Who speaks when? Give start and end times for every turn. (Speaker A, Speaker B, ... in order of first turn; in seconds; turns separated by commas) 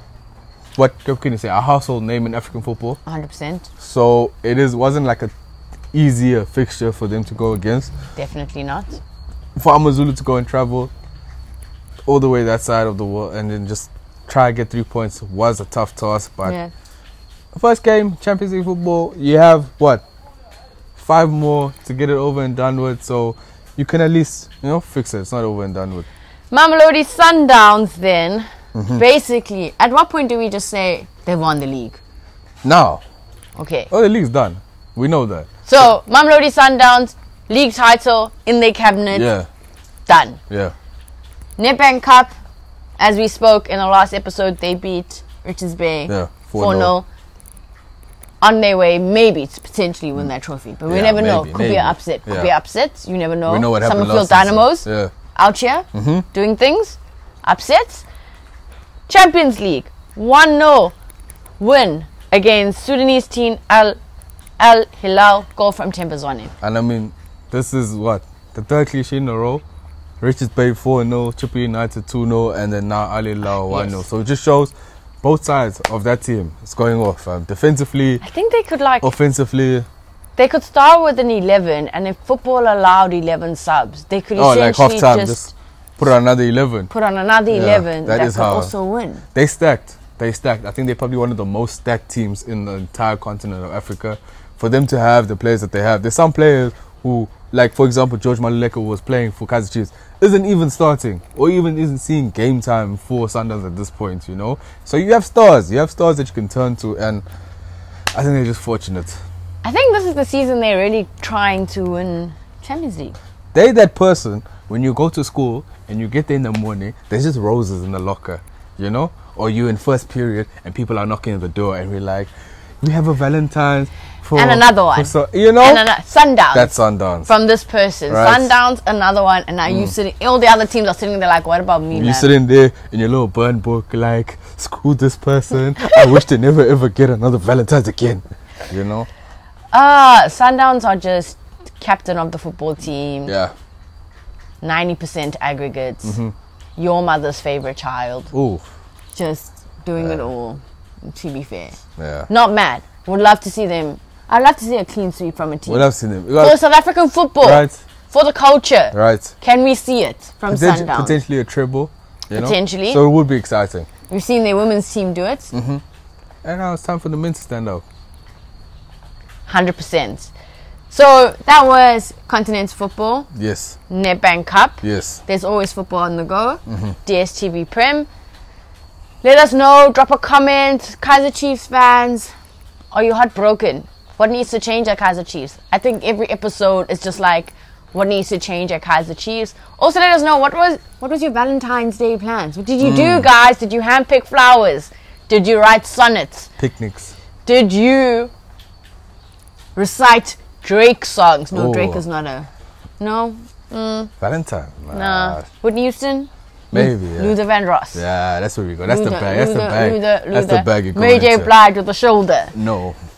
Speaker A: 0.8-3.0, Speaker B: 3.0-3.7, Speaker A: 3.8-5.3, Speaker A: 5.9-7.9, Speaker B: 8.2-9.0, Speaker A: 9.6-10.9, Speaker A: 12.1-16.6, Speaker B: 16.4-16.7, Speaker A: 17.5-20.0, Speaker A: 21.0-26.1, Speaker B: 26.5-32.0, Speaker A: 28.7-29.0, Speaker A: 32.6-33.0, Speaker B: 33.5-33.9, Speaker A: 33.9-35.5, Speaker B: 35.7-39.3, Speaker A: 39.1-39.5, Speaker B: 40.1-40.4, Speaker B: 41.6-42.3, Speaker B: 43.0-47.0, Speaker A: 46.1-46.9, Speaker B: 48.4-58.0, Speaker A: 50.9-52.5, Speaker A: 53.5-55.1, Speaker A: 55.9-56.2, Speaker B: 59.1-60.9, Speaker B: 61.6-64.0, Speaker B: 64.6-66.5, Speaker A: 66.6-69.6, Speaker A: 70.2-78.2, Speaker B: 73.7-74.0, Speaker B: 78.2-79.1, Speaker A: 79.0-79.8, Speaker B: 80.4-85.5, Speaker A: 84.3-86.9, Speaker B: 86.9-89.2, Speaker A: 87.5-88.7, Speaker A: 89.3-107.2, Speaker A: 108.1-109.2, Speaker B: 109.6-113.2, Speaker A: 113.5-122.3, Speaker A: 122.8-125.9, Speaker B: 124.3-126.7, Speaker A: 126.5-127.3, Speaker B: 127.2-132.3, Speaker A: 128.1-128.6, Speaker A: 131.9-139.1, Speaker B: 139.7-143.3, Speaker A: 143.3-143.5, Speaker B: 144.6-146.2, Speaker A: 146.0-146.3, Speaker B: 146.8-148.3, Speaker A: 148.3-148.6, Speaker B: 149.1-151.8, Speaker A: 152.0-152.3, Speaker B: 152.3-155.9, Speaker A: 155.7-156.6, Speaker B: 156.4-161.2, Speaker A: 157.4-157.8, Speaker A: 158.9-159.3, Speaker A: 160.5-163.9, Speaker B: 162.3-163.0, Speaker B: 164.1-165.5, Speaker A: 165.5-165.8, Speaker A: 166.4-167.8, Speaker B: 169.5-170.3, Speaker B: 170.9-173.3, Speaker A: 173.3-173.8, Speaker B: 173.9-178.1, Speaker A: 174.8-175.2, Speaker A: 176.7-176.9, Speaker B: 179.2-182.3, Speaker B: 182.9-196.5, Speaker A: 192.8-193.3, Speaker A: 196.6-197.1, Speaker B: 197.4-198.3, Speaker B: 199.8-202.5, Speaker A: 201.5-202.0, Speaker B: 203.0-204.1, Speaker A: 204.2-205.4, Speaker B: 204.9-208.0, Speaker A: 206.7-207.3, Speaker A: 207.9-211.5, Speaker B: 208.9-212.5, Speaker A: 212.5-213.0